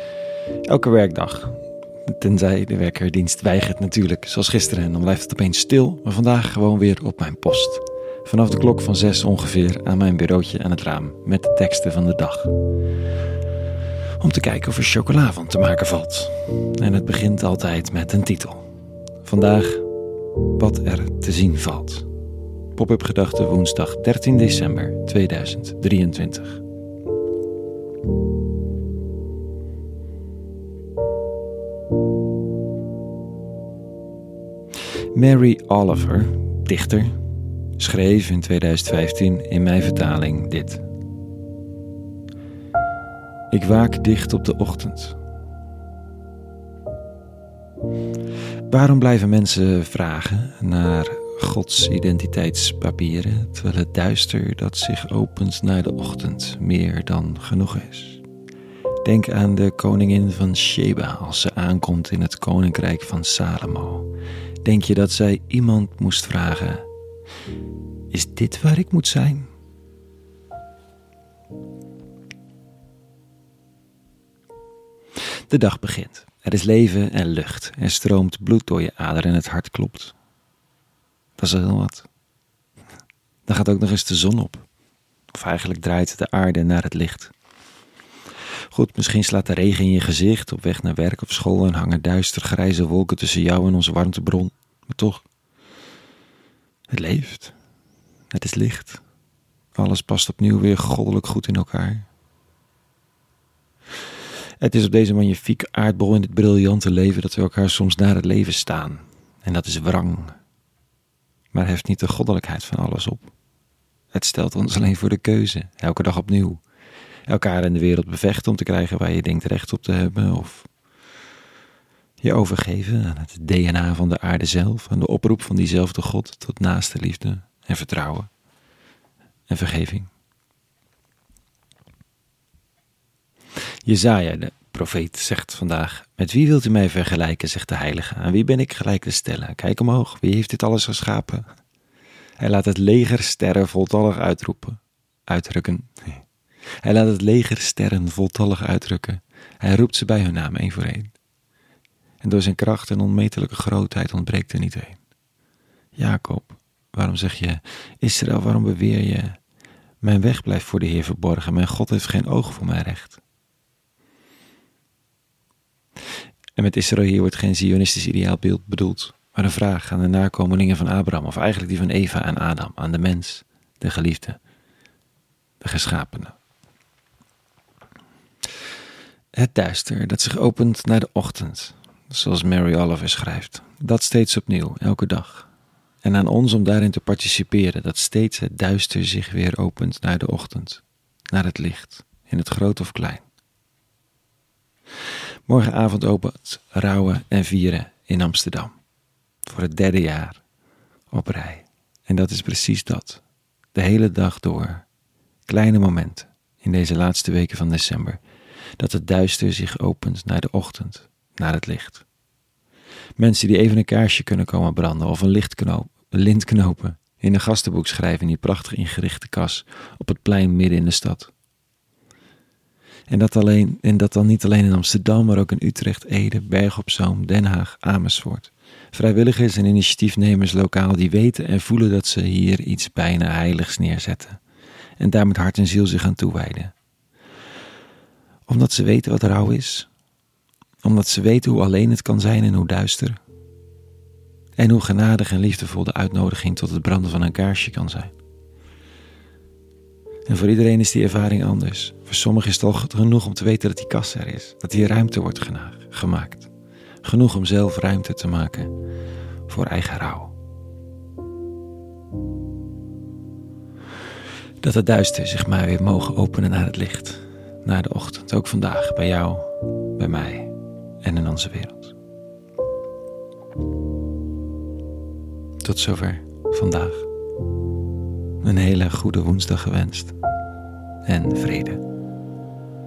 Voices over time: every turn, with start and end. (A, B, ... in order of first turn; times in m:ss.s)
0:00.7-0:12.5 A
0:14.2-0:18.6 A
0:19.2-0:19.9 A
0:20.5-0:22.1 A
0:22.7-0:26.6 A
0:35.1-0:37.2 A
0:37.8-0:40.8 A
0:43.5-0:45.2 A
0:48.7-0:58.2 A
0:59.0-1:04.1 A
1:04.6-1:06.9 A
1:08.1-1:09.5 A
1:15.5-1:20.2 A
1:21.4-1:22.1 A
1:23.5-1:24.7 A
1:25.3-1:27.3 A
1:28.7-1:35.3 A
1:36.9-1:37.5 A
1:38.3-1:39.0 A
1:39.8-1:42.1 A
1:44.6-1:50.4 A
1:51.5-1:53.3 A
1:54.1-1:56.6 A
1:57.3-2:00.7 A
2:02.2-2:08.3 A
2:09.5-2:10.1 A
2:13.8-2:21.5 A
2:22.4-2:26.2 A
2:26.8-2:31.1 A
2:32.2-2:35.0 A
2:36.0-2:39.4 A
2:40.0-2:43.2 A
2:46.6-2:54.4 A
2:55.6-2:56.4 A
2:59.3-3:05.5 A
3:06.0-3:13.2 A
3:15.5-3:18.7 A
3:19.4-3:20.4 A
3:21.1-3:23.2 A
3:23.7-3:24.9 A
3:25.5-3:28.2 A
3:28.8-3:32.0 A
3:33.2-3:41.3 A
3:43.1-3:54.4 A
3:55.0-3:56.7 A
3:58.5-3:59.9 A
4:00.8-4:03.2 A
4:04.6-4:08.1 A
4:10.3-4:16.5 A
4:17.0-4:18.7 A
4:19.5-4:20.3 A
4:24.6-4:31.9 A
4:35.6-4:37.1 A
4:38.4-4:40.2 A
4:41.0-4:41.8 A